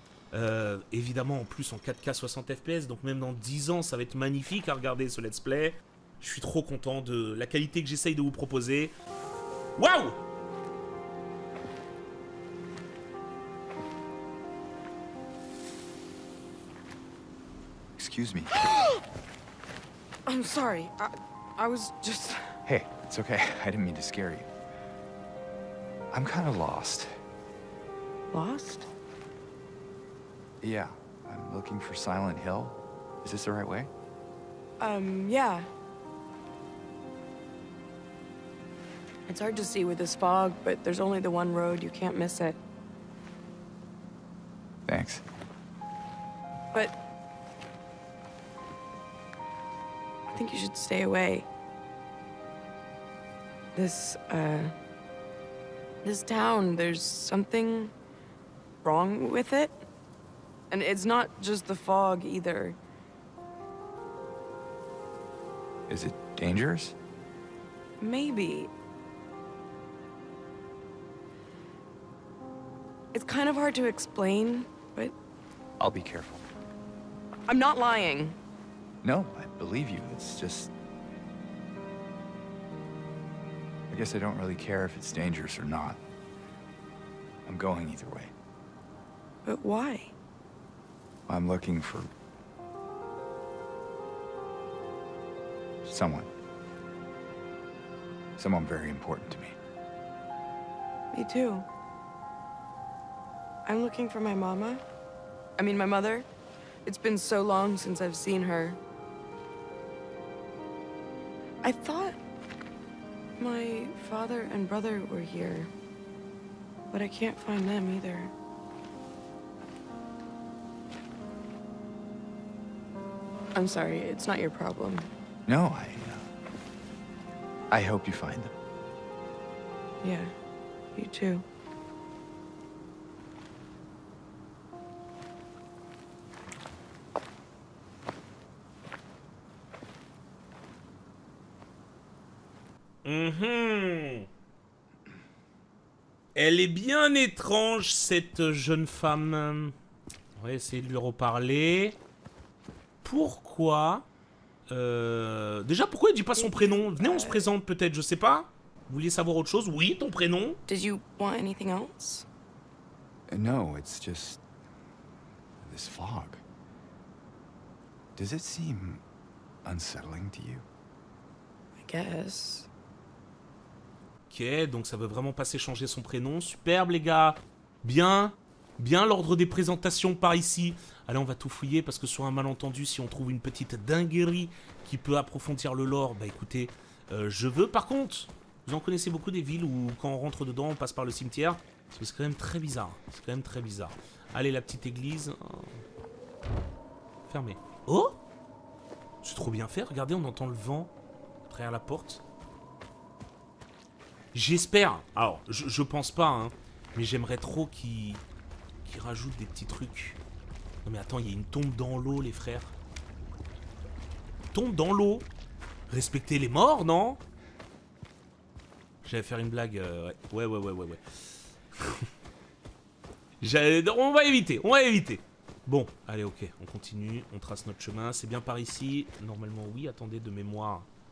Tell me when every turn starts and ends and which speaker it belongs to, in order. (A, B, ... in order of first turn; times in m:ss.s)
0:00.3-0:08.9 A
0:09.8-0:10.1 A
0:18.0-0:18.6 B
0:20.3-0:22.6 C
0:22.6-0:24.5 B
0:26.1-0:27.1 B
0:28.3-0:28.9 C
0:30.6-0:33.9 B
0:34.8-0:35.7 C
0:39.3-0:42.6 C
0:44.9-0:45.2 B
0:50.3-0:51.5 C
0:53.7-0:54.7 C
0:56.0-0:57.9 C
0:58.8-0:59.8 C
1:00.7-1:02.8 C
1:05.9-1:07.0 B
1:08.0-1:08.7 C
1:13.1-1:15.1 C
1:15.8-1:16.4 B
1:17.5-1:18.4 C
1:19.0-1:20.7 B
1:23.9-1:26.0 B
1:27.4-1:28.3 B
1:29.4-1:30.1 C
1:31.3-1:32.1 B
1:35.8-1:36.3 B
1:38.4-1:39.6 B
1:41.1-1:41.6 C
1:43.6-1:44.8 C
1:45.6-1:46.2 C
1:46.8-1:48.8 C
1:51.6-1:52.2 C
1:53.4-1:55.7 C
1:56.9-1:58.3 C
2:03.5-2:05.1 C
2:05.5-2:06.3 B
2:07.7-2:08.5 B
2:10.0-2:10.3 C
2:10.9-2:11.4 C
2:23.0-2:24.3 A
2:26.3-2:29.7 A
2:30.4-2:32.0 A
2:33.0-2:34.1 A
2:34.7-2:40.6 A
2:36.3-2:37.4 C
2:40.7-2:42.2 C
2:43.3-2:44.4 B
2:45.6-2:46.4 B
2:48.2-2:49.0 B
2:49.6-2:50.6 B
2:51.8-2:52.7 C
2:54.3-3:15.8 A
3:17.3-3:18.2 A
3:19.2-3:20.9 A
3:21.4-3:22.2 A
3:24.3-3:28.2 A
3:28.8-3:30.2 A
3:30.8-3:32.7 A
3:34.5-3:35.3 A
3:35.9-3:37.2 A
3:39.0-3:41.0 A
3:41.8-3:42.1 A
3:43.4-3:50.9 A